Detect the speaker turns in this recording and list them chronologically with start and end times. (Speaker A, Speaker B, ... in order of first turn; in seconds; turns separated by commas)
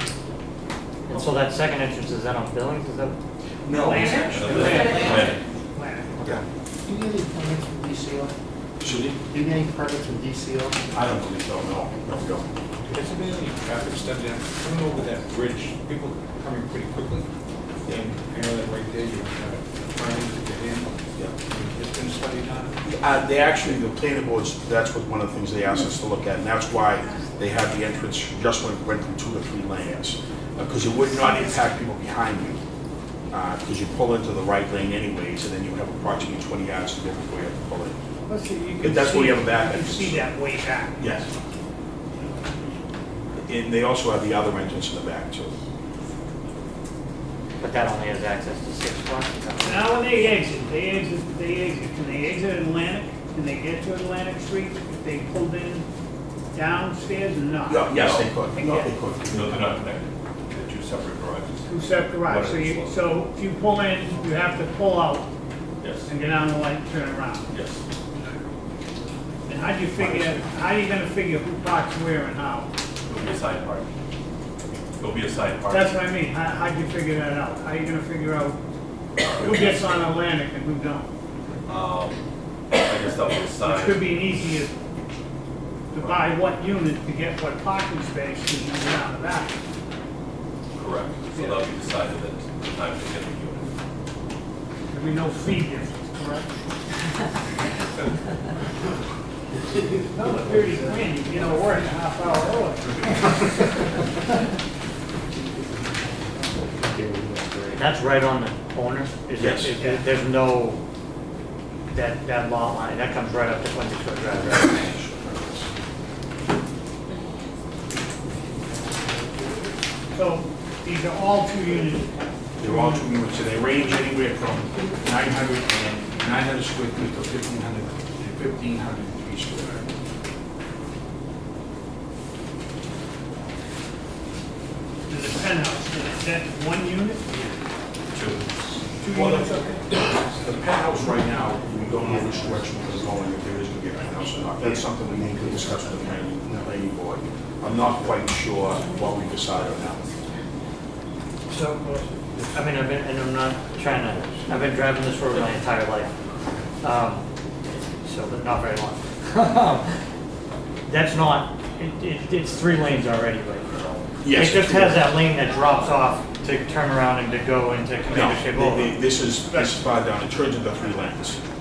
Speaker A: 1.1-3.2, Speaker B: 3.6-5.1, Speaker C: 3.7-6.2, Speaker D: 4.3-5.4, Speaker E: 4.5-5.3, Speaker F: 6.8-8.3, Speaker B: 8.8-9.2, Speaker F: 9.3-10.8, Speaker B: 10.9-12.5, Speaker E: 12.9-17.3, Speaker E: 17.9-20.9, Speaker E: 21.5-22.7, Speaker B: 22.8-32.6, Speaker B: 33.3-38.0, Speaker C: 38.3-41.1, Speaker B: 38.8-40.3, Speaker B: 41.0-41.3, Speaker B: 43.5-45.5, Speaker A: 47.6-50.2, Speaker C: 49.6-55.9, Speaker C: 56.5-57.9, Speaker B: 57.7-59.7, Speaker D: 57.9-58.3, Speaker C: 58.5-58.9, Speaker D: 59.2-61.6, Speaker C: 61.7-65.3, Speaker D: 62.2-62.9, Speaker D: 65.8-66.1, Speaker C: 66.0-67.5, Speaker D: 67.5-67.8, Speaker C: 69.5-72.7, Speaker D: 73.0-73.9, Speaker D: 75.0-75.9, Speaker C: 75.7-78.6, Speaker D: 79.2-79.8, Speaker C: 79.3-81.1, Speaker D: 81.7-82.2, Speaker D: 82.7-84.1, Speaker C: 83.6-84.7, Speaker C: 85.9-89.5, Speaker D: 90.8-93.7, Speaker C: 94.9-96.6, Speaker F: 99.7-101.8, Speaker C: 100.1-103.7, Speaker F: 106.7-107.8, Speaker A: 107.7-110.8, Speaker B: 109.4-109.8, Speaker A: 111.9-114.9, Speaker B: 114.6-115.7, Speaker C: 120.1-123.0, Speaker B: 122.6-129.9, Speaker C: 135.1-137.3, Speaker B: 138.1-150.1, Speaker C: 139.0-139.8, Speaker F: 141.8-142.9, Speaker F: 144.6-145.8, Speaker A: 151.5-156.2, Speaker B: 154.2-154.4, Speaker A: 156.8-159.9, Speaker A: 160.9-169.0, Speaker B: 164.2-165.1, Speaker B: 168.1-171.4